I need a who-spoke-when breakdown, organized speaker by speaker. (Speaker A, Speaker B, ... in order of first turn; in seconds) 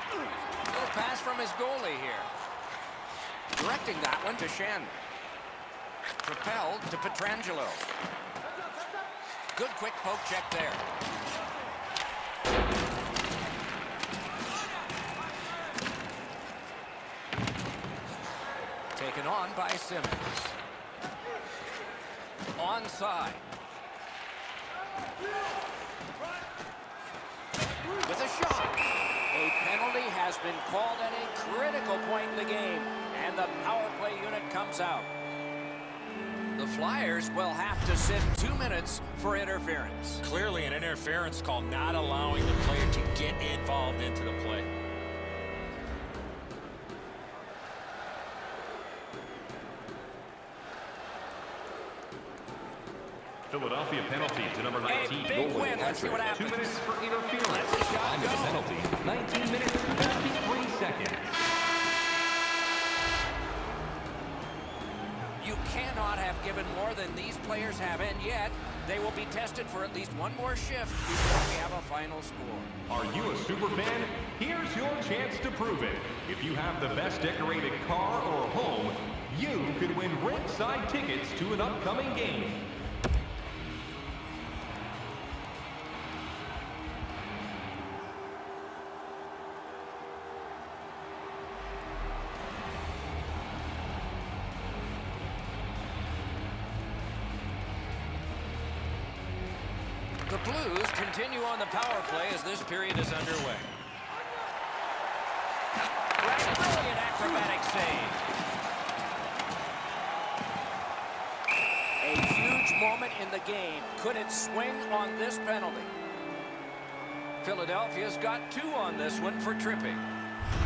Speaker A: 0.7-2.3, 3.5-5.0, 6.2-7.9, 9.5-10.8, 18.9-20.5, 22.6-23.4, 28.0-35.1, 36.5-40.2, 54.9-56.8, 57.4-58.7, 65.4-72.7, 100.3-103.7, 106.2-108.2, 112.0-115.9, 117.4-120.0
Speaker B: 40.2-44.7
Speaker C: 53.5-61.4, 72.9-82.7